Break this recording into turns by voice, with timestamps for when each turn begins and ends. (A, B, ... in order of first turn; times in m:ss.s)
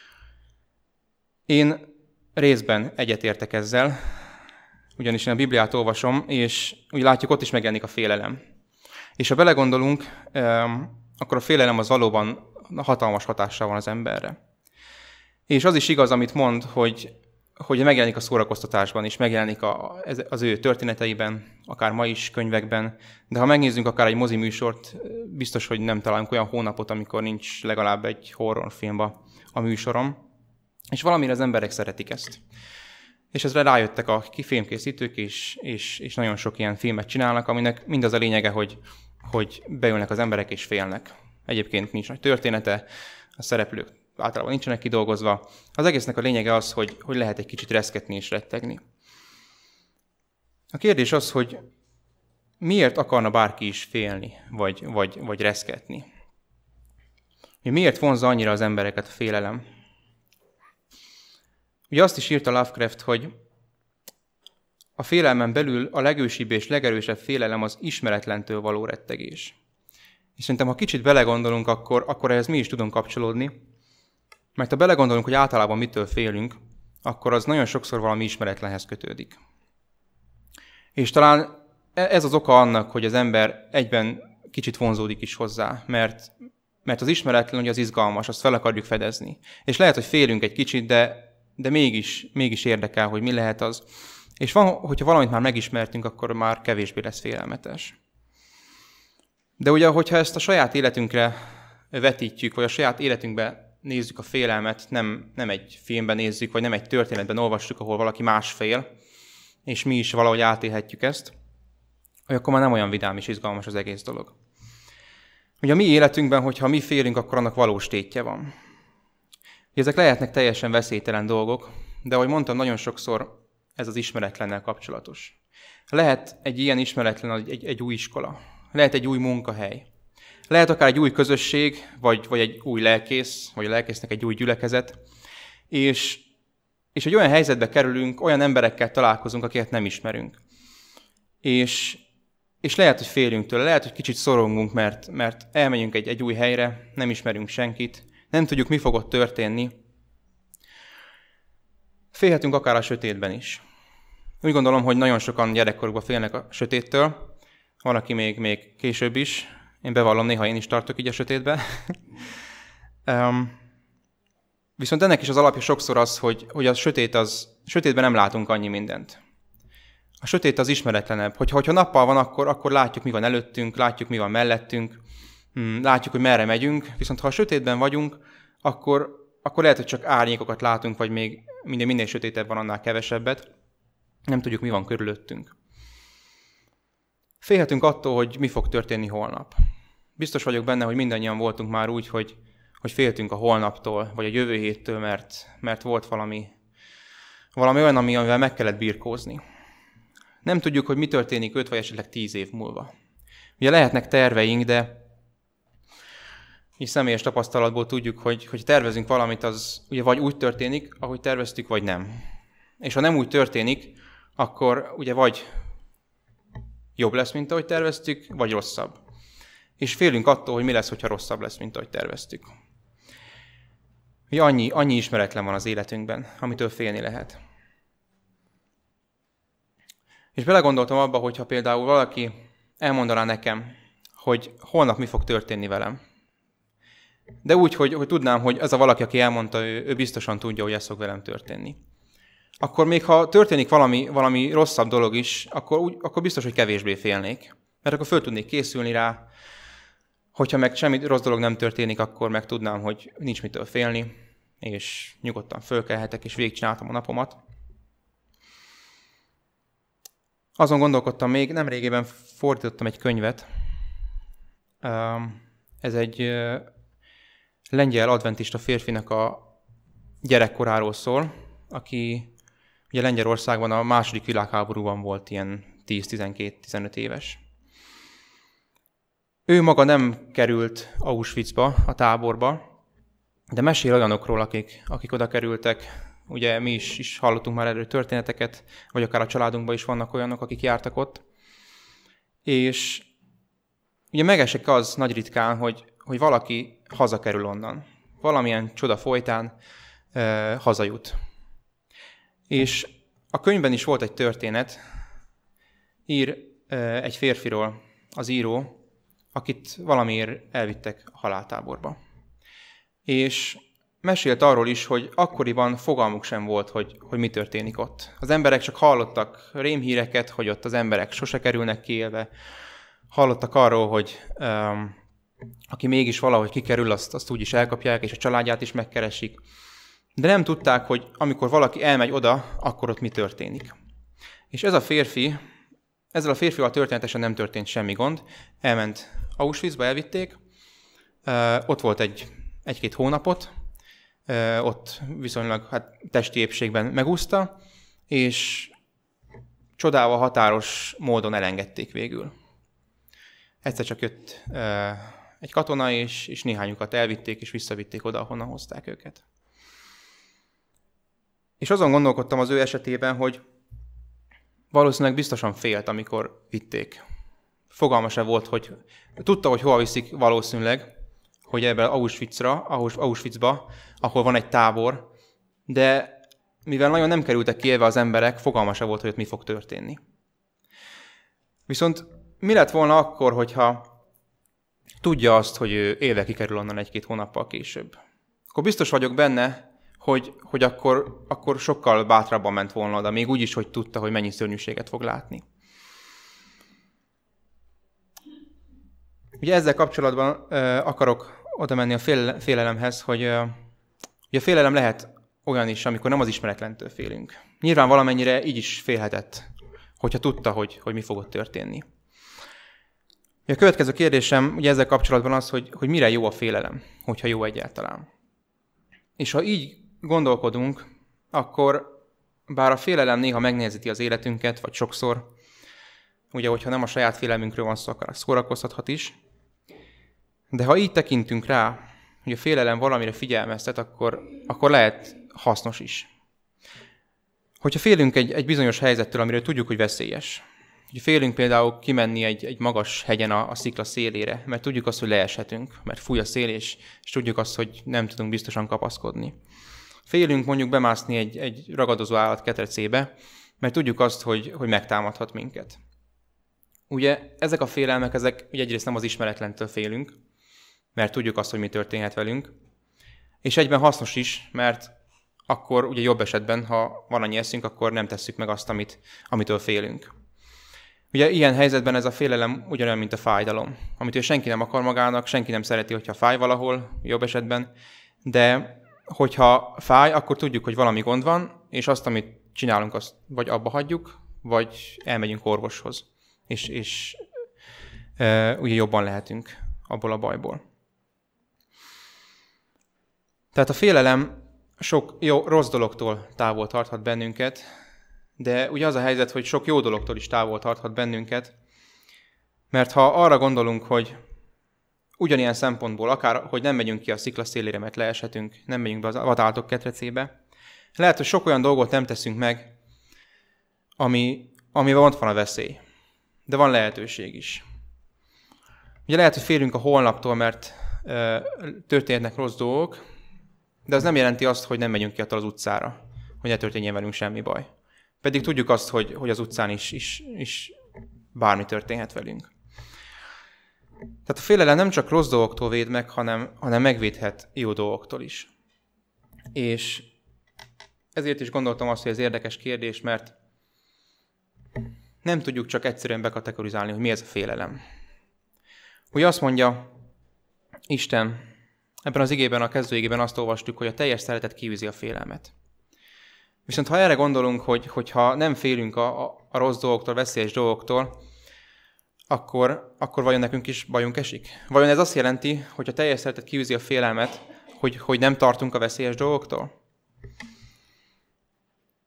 0:01.5-0:04.2 A
0:05.0-0:08.4 A
0:09.2-0:14.4 A
0:15.5-0:30.2 A
0:30.9-0:32.4 A
0:33.3-0:42.8 A
0:43.4-0:48.8 A
0:50.7-0:51.6 A
0:52.6-0:56.0 A
0:57.6-0:59.6 A
1:01.9-1:03.3 A
1:05.0-1:09.5 A
1:10.4-1:13.5 A
1:14.6-1:19.4 A
1:21.0-1:26.3 A
1:26.8-1:33.8 A
1:34.4-1:38.0 A
1:39.6-1:48.8 A
1:49.6-1:51.3 A
1:52.3-1:54.3 A
1:55.6-1:58.5 A
1:59.7-2:05.4 A
2:05.9-2:09.9 A
2:10.5-2:15.0 A
2:15.7-2:16.2 A
2:16.9-2:20.4 A
2:21.4-2:22.0 A
2:22.6-2:29.7 A
2:32.1-2:33.6 A
2:34.4-2:37.3 A
2:37.8-2:42.0 A
2:43.0-2:43.6 A
2:44.8-2:49.2 A
2:50.2-2:55.0 A
2:55.5-3:03.4 A
3:04.3-3:05.5 A
3:07.4-3:09.6 A
3:10.2-3:16.5 A
3:17.5-3:19.4 A
3:20.4-3:22.9 A
3:23.6-3:25.0 A
3:26.8-3:32.2 A
3:32.8-3:35.5 A
3:37.0-3:39.0 A
3:39.8-3:42.5 A
3:44.3-3:47.4 A
3:50.3-3:56.0 A
3:57.4-4:01.8 A
4:02.6-4:09.2 A
4:10.3-4:17.4 A
4:20.6-4:23.5 A
4:24.8-4:26.7 A
4:27.7-4:29.5 A
4:30.2-4:32.3 A
4:32.9-4:37.4 A
4:39.5-4:42.6 A
4:43.5-4:51.2 A
4:52.4-4:53.1 A
4:54.1-4:59.5 A
5:00.1-5:01.2 A
5:02.5-5:04.8 A
5:06.1-5:08.8 A
5:09.3-5:12.0 A
5:13.0-5:22.3 A
5:23.1-5:25.0 A
5:25.7-5:29.4 A
5:30.2-5:33.7 A
5:34.5-5:35.4 A
5:36.1-5:40.4 A
5:41.2-5:43.5 A
5:44.3-5:47.6 A
5:48.1-5:48.7 A
5:49.8-5:52.3 A
5:53.6-5:59.2 A
6:01.6-6:03.4 A
6:04.7-6:07.0 A
6:07.7-6:10.9 A
6:11.5-6:15.1 A
6:15.7-6:20.0 A
6:21.7-6:23.9 A
6:25.0-6:28.0 A
6:28.5-6:35.4 A
6:39.4-6:43.6 A
6:44.3-6:49.5 A
6:50.0-6:51.8 A
6:53.5-6:58.1 A
6:59.2-7:01.9 A
7:02.5-7:05.3 A
7:06.3-7:09.1 A
7:10.5-7:16.1 A
7:17.6-7:29.4 A
7:30.1-7:35.8 A
7:36.9-7:40.1 A
7:40.9-7:42.5 A
7:43.4-7:44.9 A
7:45.5-7:50.1 A
7:51.1-7:57.7 A
7:58.2-8:07.2 A
8:08.2-8:10.6 A
8:13.5-8:17.7 A
8:18.4-8:21.5 A
8:22.7-8:24.2 A
8:25.2-8:30.3 A
8:31.0-8:32.7 A
8:34.0-8:35.8 A
8:36.5-8:37.6 A
8:39.1-8:43.0 A
8:43.9-8:47.6 A
8:48.2-8:50.7 A
8:51.3-8:52.5 A
8:54.2-8:58.5 A
8:59.5-9:00.1 A
9:01.1-9:03.3 A
9:05.2-9:07.8 A
9:09.1-9:09.9 A
9:10.9-9:11.4 A
9:12.0-9:15.5 A
9:16.7-9:21.2 A
9:22.3-9:29.7 A